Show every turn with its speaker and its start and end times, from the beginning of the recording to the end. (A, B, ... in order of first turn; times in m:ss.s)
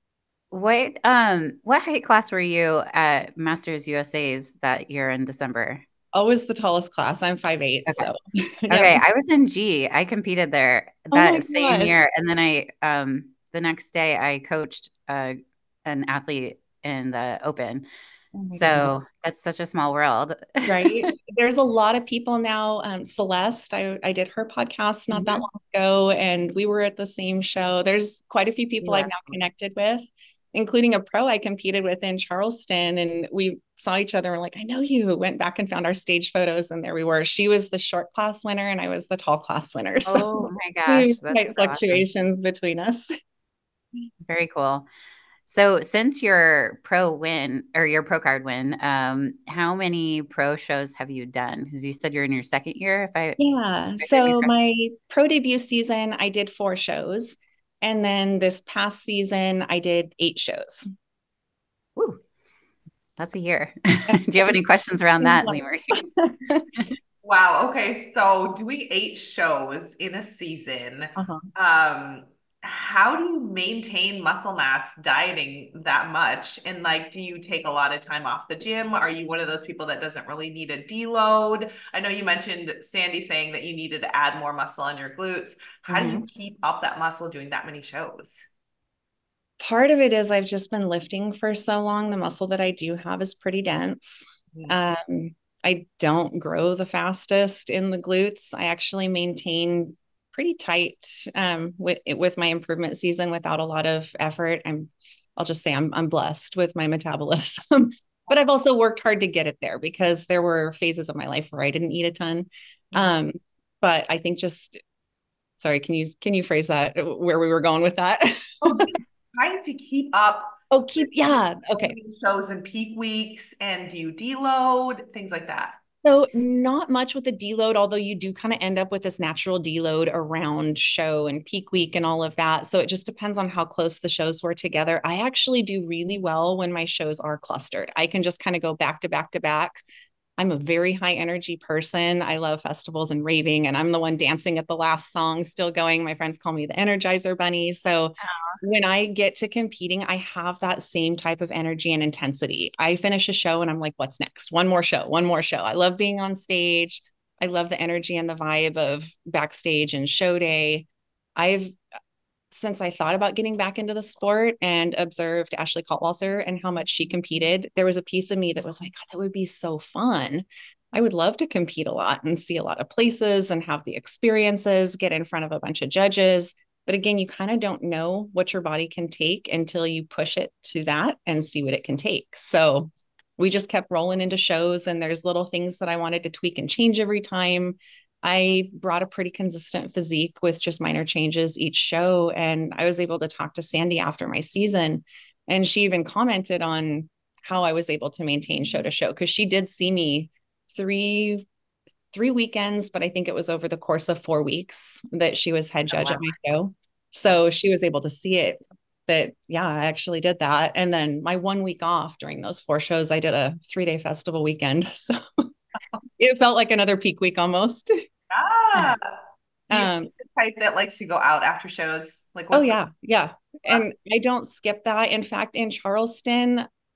0:00.5-0:05.8 A
0:06.1-0:09.0 B
0:08.7-0:17.8 A
0:11.1-0:12.0 B
0:18.4-0:18.9 B
0:18.5-0:21.1 A
0:20.7-0:43.1 B
0:25.1-0:25.4 C
0:28.8-0:29.2 C
0:40.0-0:42.0 A
0:44.2-0:44.9 A
0:45.5-0:53.4 A
0:53.4-1:00.9 B
0:54.0-0:54.5 A
1:02.0-1:02.2 A
1:03.2-1:06.0 A
1:04.1-1:04.5 B
1:05.2-1:06.7 B
1:07.2-1:28.5 C
1:11.2-1:11.4 B
1:25.9-1:26.2 B
1:29.6-1:54.8 B
1:55.6-1:58.9 B
1:58.7-2:05.8 C
2:00.7-2:02.0 B
2:06.0-2:19.8 B
2:20.4-2:41.8 B
2:28.2-2:28.6 A
2:42.5-3:21.5 B
3:22.1-3:35.2 B
3:26.0-3:26.2 A
3:36.2-3:37.9 B
3:38.3-3:39.2 C
3:39.7-3:40.1 B
3:39.7-3:42.8 C
3:42.5-3:46.7 B